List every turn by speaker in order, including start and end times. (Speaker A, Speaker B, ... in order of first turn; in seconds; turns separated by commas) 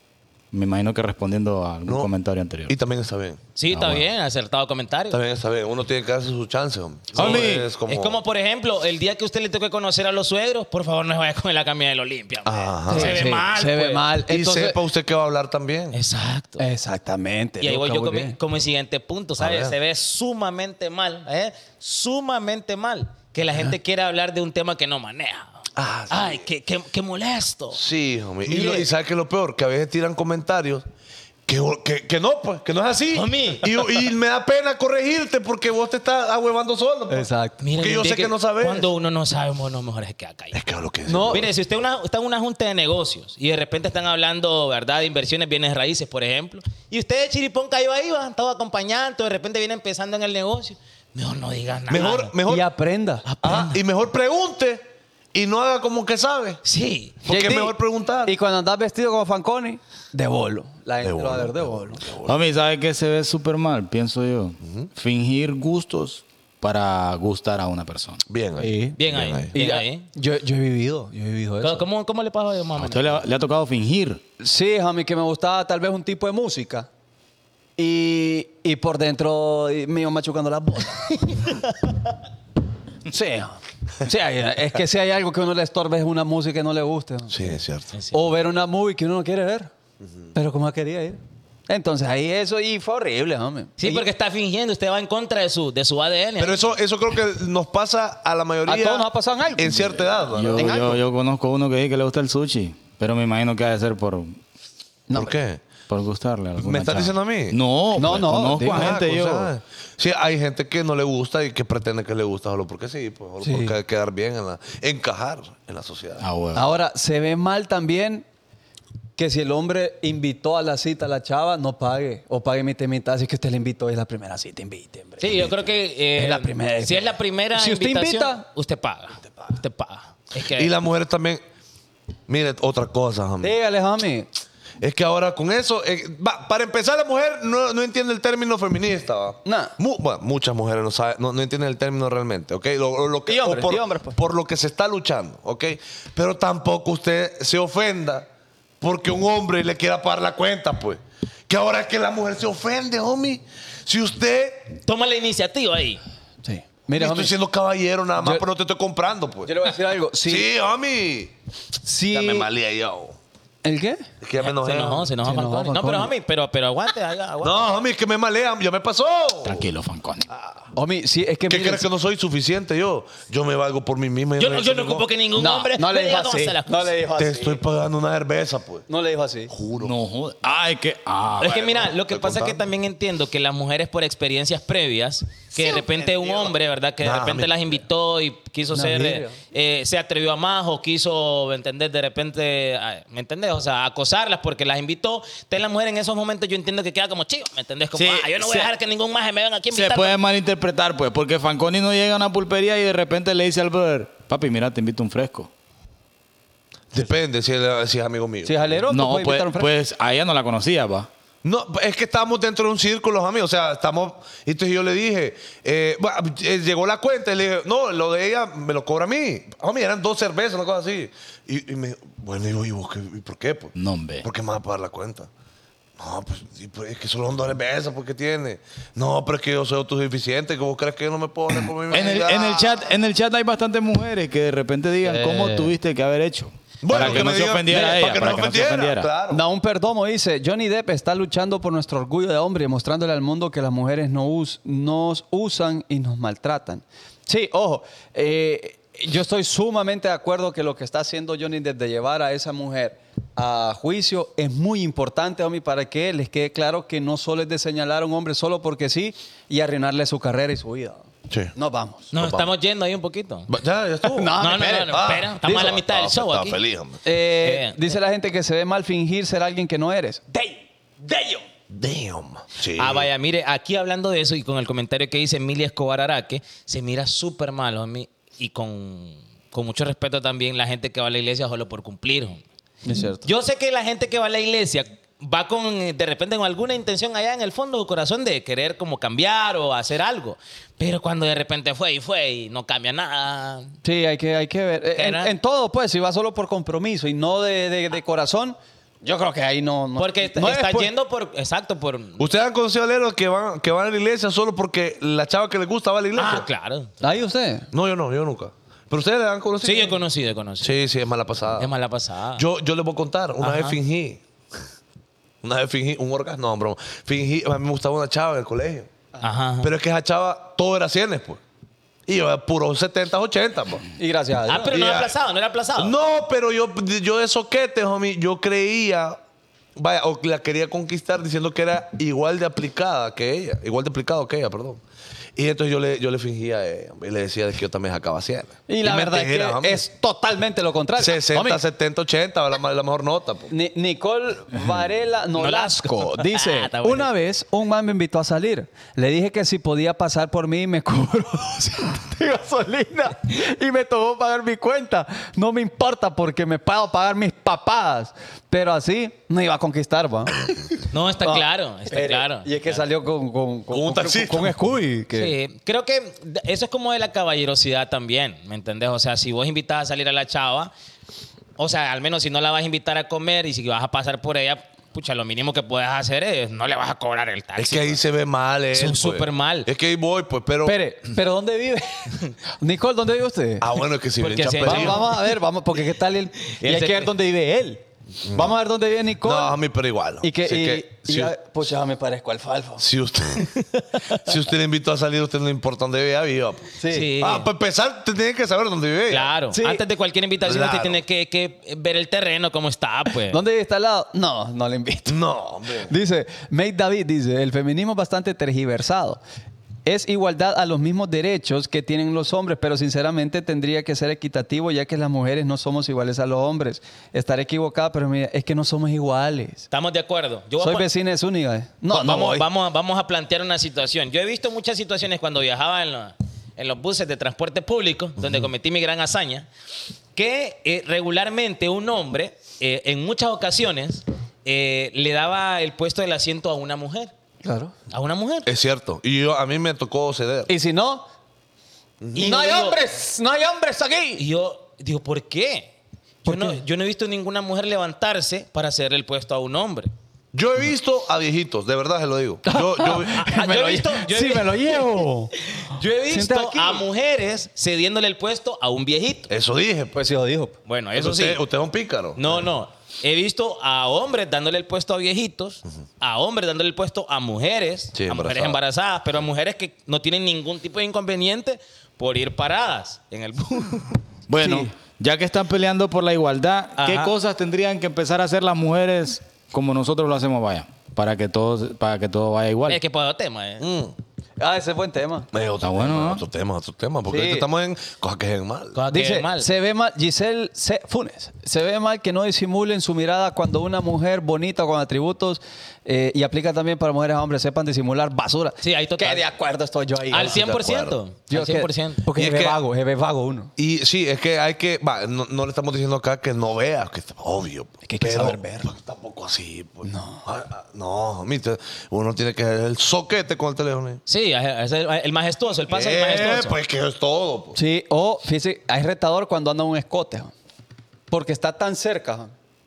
Speaker A: 0.5-2.8, Speaker B: 2.7-3.4, Speaker C: 3.6-5.2, Speaker A: 3.7-4.0, Speaker B: 5.1-8.2, Speaker C: 7.1-14.1, Speaker A: 7.2-7.6, Speaker B: 12.4-13.3, Speaker D: 12.9-14.8, Speaker B: 14.3-16.0, Speaker C: 15.9-16.6, Speaker D: 16.6-18.4, Speaker C: 17.6-27.8, Speaker B: 19.4-19.8, Speaker B: 25.8-26.5, Speaker B: 27.7-30.9, Speaker C: 28.5-28.9, Speaker B: 31.5-38.9, Speaker C: 33.1-33.8, Speaker D: 37.1-37.6, Speaker C: 37.6-40.6, Speaker B: 40.5-41.5, Speaker D: 41.1-41.5, Speaker C: 41.3-52.4, Speaker B: 51.9-52.7, Speaker D: 52.5-53.2, Speaker C: 53.3-53.8, Speaker B: 53.4-54.8, Speaker B: 55.3-56.6, Speaker C: 56.6-57.2, Speaker B: 57.2-58.4, Speaker D: 57.3-62.0, Speaker B: 61.0-62.4, Speaker A: 62.3-68.2, Speaker B: 64.6-64.9, Speaker B: 68.3-69.5, Speaker D: 68.6-69.0, Speaker C: 69.0-70.1, Speaker D: 69.5-71.8, Speaker C: 71.6-73.2, Speaker A: 72.8-74.2, Speaker D: 74.4-76.9, Speaker D: 77.8-81.6, Speaker D: 83.1-87.5, Speaker B: 87.3-88.0, Speaker D: 88.1-89.7, Speaker D: 90.3-94.0, Speaker C: 93.8-96.6, Speaker B: 96.4-101.0, Speaker D: 98.7-101.0, Speaker A: 100.3-104.4, Speaker D: 105.1-105.3, Speaker B: 105.1-105.6, Speaker A: 105.9-109.5, Speaker B: 106.6-107.6, Speaker D: 108.0-109.0, Speaker B: 108.6-116.2, Speaker D: 113.4-113.8, Speaker A: 116.2-116.8, Speaker D: 116.5-118.2, Speaker D: 119.2-125.6, Speaker C: 125.2-130.7, Speaker D: 126.2-128.4, Speaker B: 130.5-131.4, Speaker B: 132.3-133.5, Speaker D: 133.4-134.3, Speaker B: 134.8-148.3, Speaker D: 139.4-139.7, Speaker D: 143.3-144.2, Speaker B: 148.8-154.8, Speaker C: 154.8-156.0, Speaker D: 156.4-157.3, Speaker B: 157.0-159.7, Speaker D: 158.2-158.4, Speaker D: 159.4-160.5, Speaker B: 160.2-161.3, Speaker D: 161.8-162.5, Speaker B: 162.1-163.2, Speaker D: 163.6-164.1, Speaker B: 164.2-165.1, Speaker C: 164.4-167.6, Speaker D: 165.2-166.1, Speaker B: 167.4-169.7, Speaker A: 169.4-170.3, Speaker D: 170.8-171.9, Speaker B: 171.5-175.1, Speaker C: 174.4-176.9, Speaker D: 175.4-177.6, Speaker B: 177.2-178.8, Speaker D: 178.9-179.5, Speaker B: 179.5-179.9, Speaker A: 179.8-181.5, Speaker C: 181.4-200.2, Speaker B: 181.4-182.6, Speaker B: 186.1-187.8, Speaker D: 188.7-189.4, Speaker A: 198.1-198.7, Speaker A: 199.7-205.5, Speaker B: 206.9-208.8, Speaker D: 208.4-209.7, Speaker A: 208.9-211.1, Speaker B: 211.4-225.3, Speaker A: 223.8-224.2, Speaker B: 226.0-232.8, Speaker A: 231.9-239.1, Speaker D: 235.0-235.7, Speaker B: 236.8-239.4, Speaker D: 239.3-262.1, Speaker B: 261.3-261.5, Speaker C: 262.1-263.5, Speaker B: 262.1-262.5, Speaker B: 263.5-267.0, Speaker D: 264.1-265.8, Speaker C: 264.4-266.6, Speaker D: 267.1-271.4, Speaker C: 267.3-267.8, Speaker B: 271.7-273.1, Speaker C: 272.8-282.4, Speaker D: 282.9-283.3, Speaker C: 283.2-293.7, Speaker D: 293.8-300.9, Speaker C: 294.9-295.3, Speaker C: 300.0-302.3, Speaker B: 302.2-306.5, Speaker C: 306.2-307.0, Speaker D: 307.0-307.7, Speaker B: 307.7-310.0, Speaker C: 309.6-310.8, Speaker B: 310.6-311.7, Speaker C: 311.6-312.4, Speaker B: 312.4-314.2, Speaker C: 313.4-313.8, Speaker B: 315.4-318.9, Speaker C: 319.2-319.7, Speaker B: 319.6-321.4, Speaker B: 322.1-323.9, Speaker D: 324.0-324.8, Speaker C: 324.5-325.9, Speaker B: 324.7-325.1, Speaker B: 325.8-329.2, Speaker B: 329.8-334.8, Speaker B: 335.4-339.9, Speaker D: 338.7-341.6, Speaker B: 341.0-343.5, Speaker D: 343.5-365.3, Speaker C: 345.4-347.1, Speaker C: 360.9-362.8, Speaker B: 363.7-364.6, Speaker C: 365.1-370.7, Speaker C: 371.6-378.0, Speaker B: 377.6-380.8, Speaker C: 378.7-379.7, Speaker D: 380.6-383.7, Speaker B: 383.6-385.1, Speaker C: 384.2-385.2, Speaker D: 384.4-389.6, Speaker C: 386.5-387.1, Speaker B: 388.2-388.5, Speaker B: 389.2-391.3, Speaker D: 390.2-392.9, Speaker B: 392.8-393.6, Speaker C: 393.6-394.2, Speaker B: 394.1-399.3, Speaker D: 396.8-397.1, Speaker C: 396.9-397.5, Speaker C: 399.1-403.4, Speaker D: 399.5-399.8, Speaker B: 400.4-401.0, Speaker D: 403.3-405.2, Speaker B: 405.1-405.9, Speaker D: 405.8-409.2, Speaker D: 409.9-419.7, Speaker C: 419.7-420.9, Speaker D: 420.6-422.5, Speaker C: 421.9-429.5, Speaker C: 430.2-437.1, Speaker D: 437.4-437.7, Speaker C: 437.9-438.5, Speaker B: 438.5-440.5, Speaker D: 440.5-441.1, Speaker B: 442.0-442.3, Speaker C: 442.1-442.8, Speaker D: 442.2-444.2, Speaker C: 444.2-445.7, Speaker C: 446.2-449.9, Speaker D: 446.3-446.6, Speaker B: 450.3-453.3, Speaker D: 452.5-456.9, Speaker C: 453.0-454.8, Speaker C: 455.5-459.3, Speaker B: 459.3-460.0, Speaker D: 459.9-460.6, Speaker C: 460.7-461.4, Speaker B: 460.9-462.5, Speaker C: 462.2-474.0, Speaker B: 467.9-468.6, Speaker A: 474.3-482.8, Speaker D: 474.4-474.7, Speaker C: 476.8-477.1, Speaker C: 482.7-483.7, Speaker B: 483.6-483.9, Speaker D: 484.4-485.3, Speaker B: 485.3-488.8, Speaker A: 485.6-486.2, Speaker D: 487.1-487.5, Speaker C: 488.8-489.5, Speaker D: 488.9-500.4, Speaker C: 498.6-499.3, Speaker C: 500.1-502.1, Speaker B: 500.1-501.0, Speaker D: 501.3-503.5, Speaker B: 502.1-502.6, Speaker B: 503.6-514.0, Speaker D: 507.9-508.7, Speaker D: 509.8-510.2, Speaker C: 514.1-516.6, Speaker B: 515.7-517.6, Speaker D: 517.5-520.3, Speaker D: 521.1-522.3